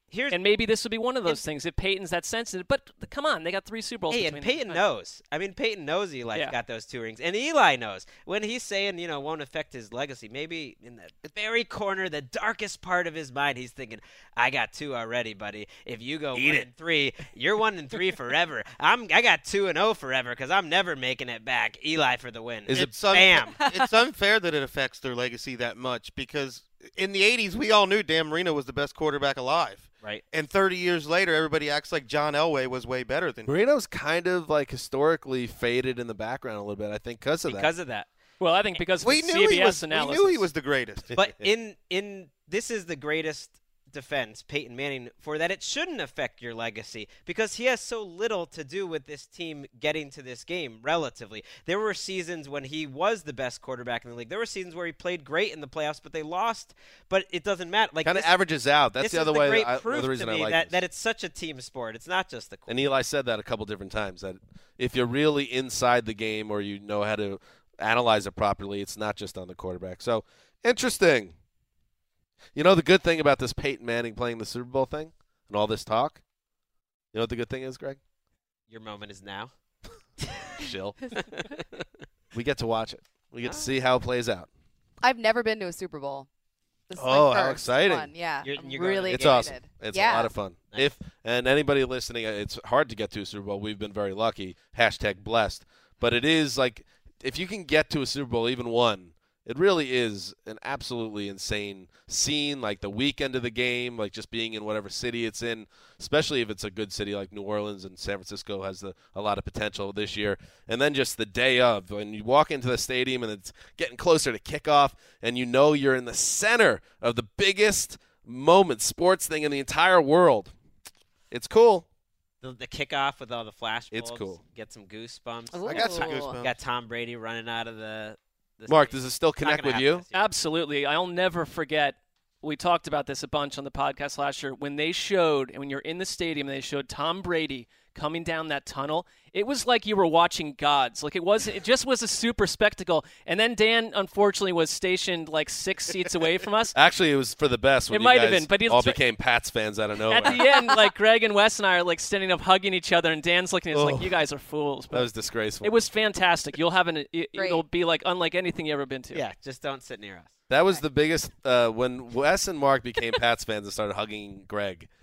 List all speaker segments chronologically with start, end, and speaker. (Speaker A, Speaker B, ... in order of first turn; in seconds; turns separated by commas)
Speaker A: 0.1-0.4, Speaker B: 0.3-4.8, Speaker A: 4.1-23.6, Speaker C: 16.4-16.7, Speaker C: 22.7-22.9, Speaker D: 22.7-33.5, Speaker C: 33.5-37.7, Speaker A: 37.5-38.1, Speaker B: 38.4-40.5, Speaker D: 39.0-41.1, Speaker A: 41.1-58.3, Speaker C: 58.0-60.8, Speaker A: 59.0-62.7, Speaker C: 62.7-71.3, Speaker C: 72.5-76.2, Speaker C: 77.1-78.0, Speaker A: 78.7-79.5, Speaker C: 80.6-81.0, Speaker A: 81.2-81.6, Speaker C: 82.3-84.5, Speaker A: 83.4-83.7, Speaker E: 85.0-86.3, Speaker E: 86.9-90.3, Speaker C: 87.0-88.1, Speaker A: 88.4-89.6, Speaker C: 89.0-120.5, Speaker C: 121.3-121.9, Speaker A: 122.4-130.2, Speaker C: 123.9-124.4, Speaker E: 125.5-126.4, Speaker D: 125.7-126.5, Speaker C: 128.7-130.1, Speaker B: 130.1-146.8, Speaker C: 146.8-150.4, Speaker B: 147.9-149.0, Speaker B: 150.1-155.1, Speaker C: 153.7-154.1, Speaker C: 154.9-155.7, Speaker B: 155.6-159.2, Speaker E: 157.4-157.6, Speaker A: 159.1-160.3, Speaker C: 160.5-164.9